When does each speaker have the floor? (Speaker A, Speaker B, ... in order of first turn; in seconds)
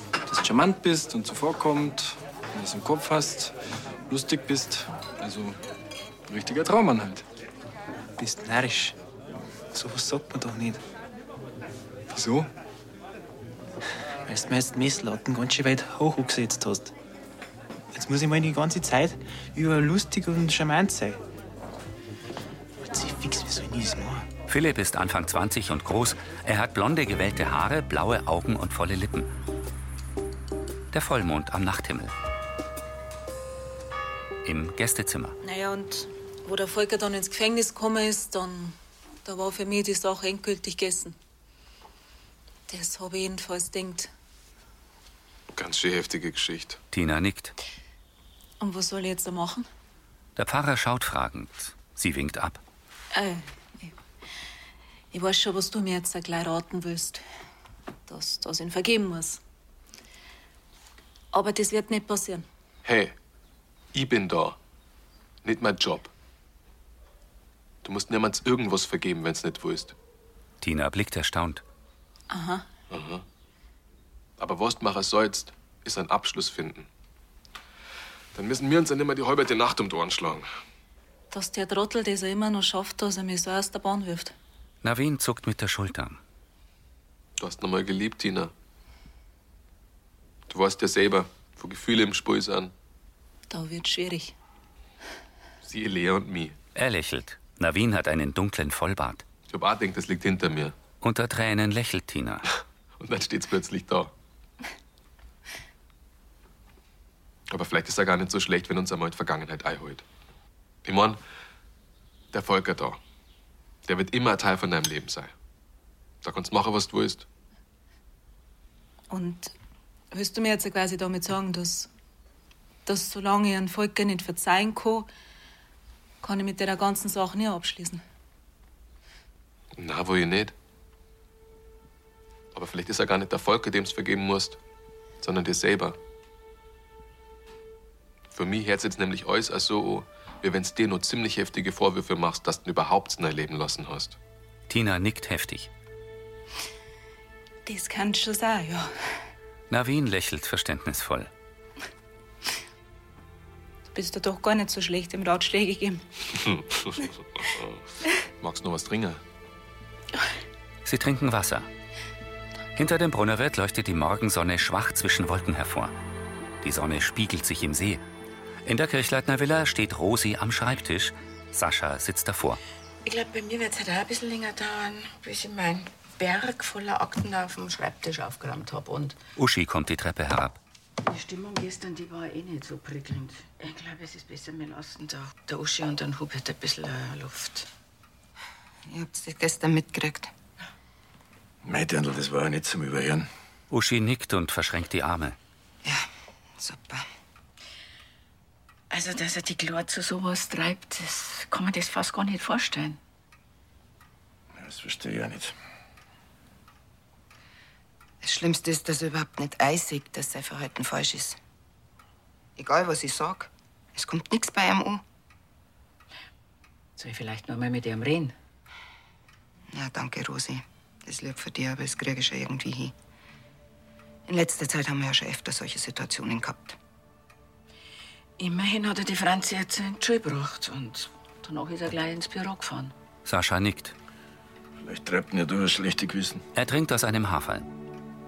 Speaker A: 0.3-3.5, 4.1-5.6, 6.3-7.2, 12.1-12.5
Speaker B: 8.2-8.9, 9.7-10.8, 14.3-16.9, 17.9-21.2, 22.8-24.2
Speaker C: 24.5-29.3, 30.9-32.1, 34.4-35.4, 46.9-47.5, 50.4-52.6, 70.6-71.6, 84.8-86.2, 96.8-99.2, 101.0-102.4, 144.7-145.7, 149.7-151.3, 160.8-161.7, 162.8-165.9, 166.6-168.0, 168.7-172.6, 179.4-180.6, 193.7-195.4, 233.2-233.9, 236.6-237.7
Speaker D: 35.4-41.1, 42.7-44.1, 48.6-49.7, 53.1-53.9, 55.1-57.2, 58.1-59.4, 61.3-62.5, 72.3-72.7, 81.3-84.3, 93.5-94.3, 119.1-119.5, 120.1-121.9, 122.9-125.1, 126.2-128.0, 147.7-148.9, 153.9-156.0
Speaker E: 45.5-46.8, 62.9-63.1, 63.9-64.6, 65.4-66.1, 67.8-69.9, 72.9-73.2, 74.4-76.9, 78.3-80.5, 87.4-88.5, 90.5-92.7, 95.6-96.5, 99.5-100.8, 103.0-104.1, 107.5-110.0, 110.8-111.2, 112.3-113.0, 113.9-115.3, 116.2-117.2, 129.8-130.5, 132.5-134.6, 135.2-136.0, 138.3-144.2, 156.3-157.8, 158.4-159.2
Speaker F: 173.0-179.2, 181.0-187.7, 198.9-203.0, 217.0-218.3, 228.4-232.9
Speaker G: 188.9-190.3, 196.6-197.1, 208.2-211.4, 212.6-215.0, 219.7-222.9, 224.3-226.8
Speaker H: 191.6-193.3, 204.5-205.5, 234.8-236.4